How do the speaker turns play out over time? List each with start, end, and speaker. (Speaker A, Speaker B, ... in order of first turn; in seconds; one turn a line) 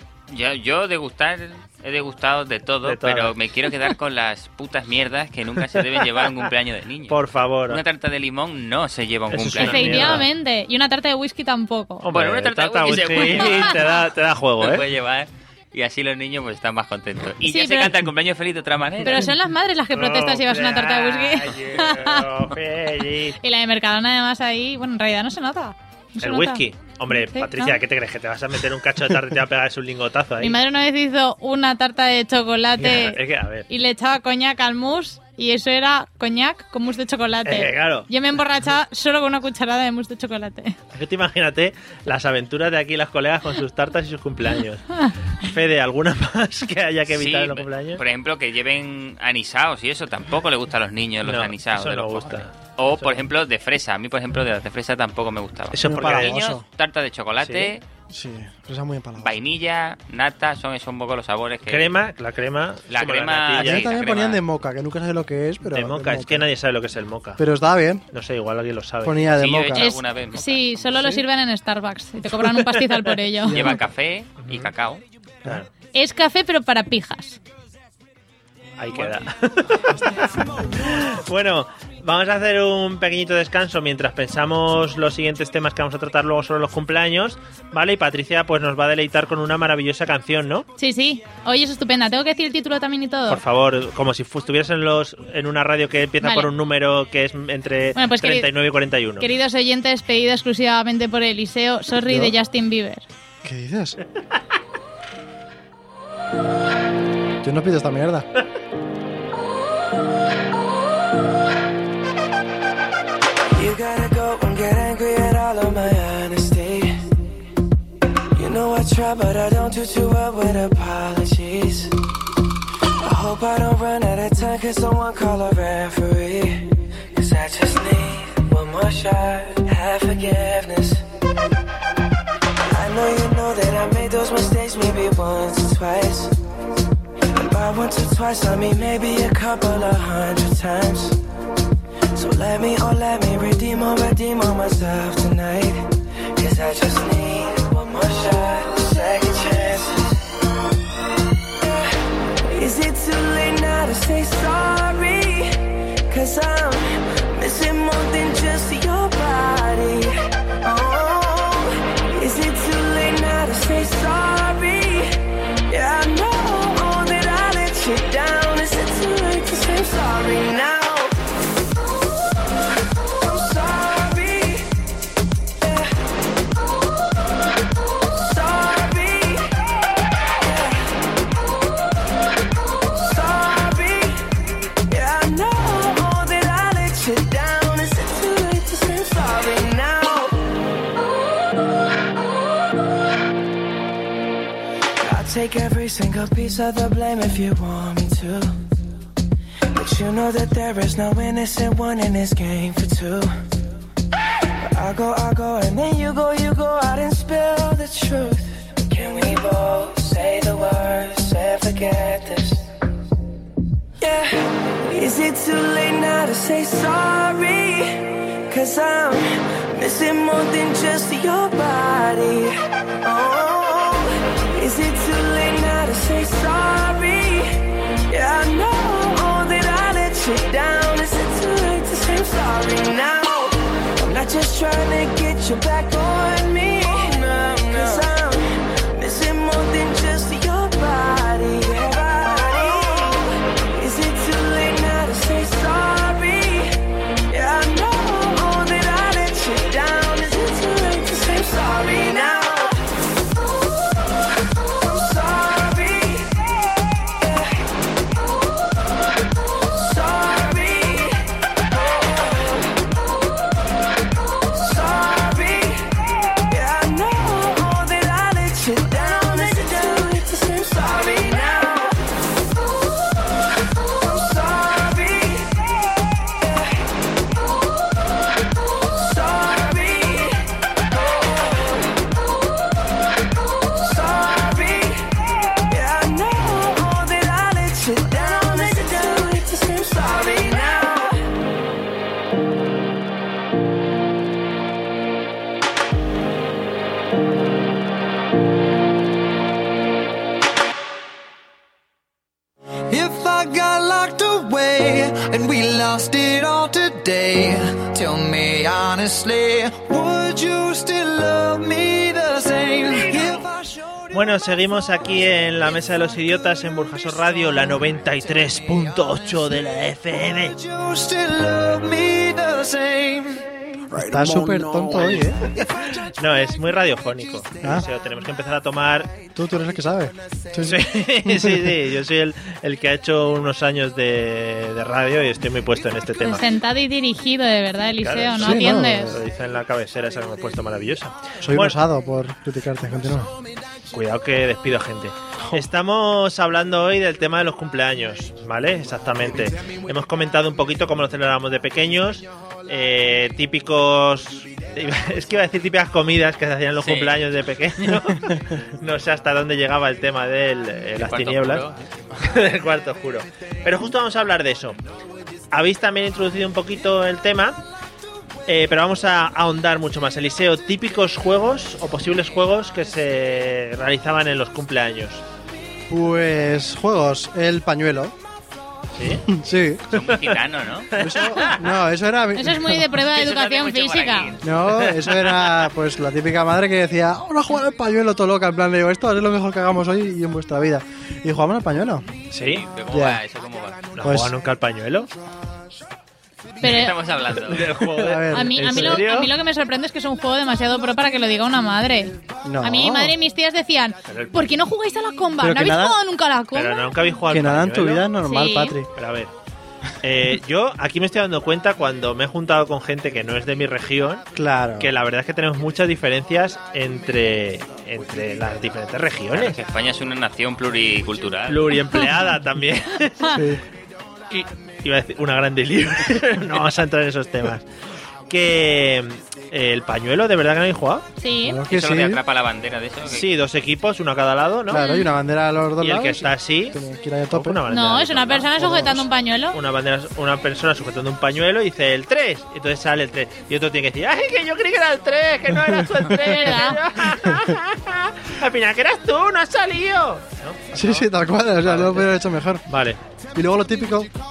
Speaker A: 0.3-10.2
Speaker B: 2.8-3.3
Speaker B: 5.8-6.3
Speaker B: 7.1-7.8
Speaker B: 9.3-10.3
Speaker C: 9.6-12.1
Speaker B: 12.0-14.8
Speaker A: 12.1-14.0
Speaker C: 12.9-13.7
Speaker A: 14.6-19.3
Speaker C: 17.4-18.0
Speaker C: 19.0-22.3
Speaker B: 19.9-23.4
Speaker C: 23.4-27.8
Speaker B: 26.2-30.6
Speaker C: 30.4-40.8
Speaker B: 32.8-33.7
Speaker B: 37.4-38.1
Speaker B: 40.9-48.0
Speaker A: 47.1-57.8
Speaker B: 51.2-53.2
Speaker B: 55.7-56.3
Speaker D: 55.8-56.6
Speaker B: 57.4-57.7
Speaker D: 58.1-59.3
Speaker A: 59.2-62.0
Speaker B: 61.7-64.0
Speaker A: 62.9-64.4
Speaker D: 63.5-66.5
Speaker B: 65.6-67.4
Speaker D: 67.4-68.0
Speaker B: 68.1-69.3
Speaker D: 69.0-69.9
Speaker A: 69.3-71.1
Speaker C: 69.8-73.6
Speaker B: 72.3-73.2
Speaker D: 73.5-73.8
Speaker A: 73.5-75.0
Speaker B: 74.4-74.7
Speaker C: 75.9-77.4
Speaker B: 78.8-90.7
Speaker C: 90.8-93.4
Speaker B: 93.3-99.3
Speaker C: 96.2-96.5
Speaker C: 97.9-98.5
Speaker C: 99.2-103.0
Speaker D: 102.0-102.3
Speaker D: 103.4-104.0
Speaker D: 107.4-108.3
Speaker E: 113.5-117.0
Speaker E: 118.3-122.0
Speaker E: 123.0-131.0
Speaker E: 132.6-136.4
Speaker E: 137.3-141.2
Speaker E: 142.1-150.2
Speaker E: 151.6-151.9
Speaker E: 152.5-171.1
Speaker E: 173.0-174.7
Speaker E: 175.6-175.9
Speaker E: 178.1-180.9
Speaker E: 182.9-190.4
Speaker E: 195.0-198.5
Speaker E: 199.7-203.3
Speaker E: 204.6-212.7
Speaker E: 214.0-252.8
Speaker E: 254.6-257.6
Speaker E: 259.6-262.8
Speaker E: 264.5-272.0
Speaker E: 273.8-276.8
Speaker E: 278.8-282.0
Speaker E: 283.8-291.3
Speaker F: 302.9-314.0
Speaker B: 314.1-320.6
Speaker F: 320.6-325.5
Speaker D: 323.9-325.5
Speaker B: 326.1-329.1
Speaker D: 327.6-327.9
Speaker D: 329.3-331.8
Speaker B: 330.6-336.5
Speaker C: 336.2-339.1
Speaker B: 338.0-341.8
Speaker D: 338.4-339.2
Speaker D: 341.4-343.3
Speaker B: 343.9-361.6
Speaker A: 356.8-357.2
Speaker A: 361.0-361.8
Speaker B: 362.2-364.8
Speaker B: 365.5-367.6
Speaker B: 368.5-375.2
Speaker D: 375.9-378.1
Speaker B: 378.9-379.3
Speaker D: 379.3-379.8
Speaker A: 379.9-380.9
Speaker B: 379.9-380.4
Speaker B: 380.9-381.7
Speaker D: 380.9-382.9
Speaker C: 382.3-384.3
Speaker A: 383.0-384.9
Speaker D: 384.4-392.1
Speaker B: 384.6-385.7
Speaker B: 392.3-392.6
Speaker A: 392.4-393.9
Speaker D: 392.9-393.2
Speaker B: 393.9-395.1
Speaker D: 394.0-394.3
Speaker A: 396.6-397.9
Speaker C: 396.6-397.0
Speaker B: 397.4-399.3
Speaker D: 397.9-399.1
Speaker C: 398.3-406.9
Speaker D: 402.4-403.1
Speaker B: 404.1-404.5
Speaker D: 405.4-406.0
Speaker B: 406.5-408.1
Speaker D: 407.3-408.9
Speaker C: 408.2-408.8
Speaker B: 408.9-409.3
Speaker B: 410.0-414.2
Speaker D: 414.3-414.9
Speaker B: 414.8-419.6
Speaker A: 419.3-422.0
Speaker B: 421.5-423.4
Speaker D: 423.3-423.6
Speaker B: 424.3-427.6
Speaker B: 428.3-431.1
Speaker C: 431.2-431.6
Speaker D: 431.4-432.2
Speaker A: 431.7-433.3
Speaker B: 433.1-434.9
Speaker D: 434.7-437.6
Speaker C: 434.7-435.1
Speaker B: 435.8-436.8
Speaker B: 437.3-451.1
Speaker C: 437.7-439.6
Speaker C: 446.1-446.8
Speaker D: 450.7-452.6
Speaker B: 451.6-452.1
Speaker B: 452.7-453.0
Speaker D: 453.3-454.1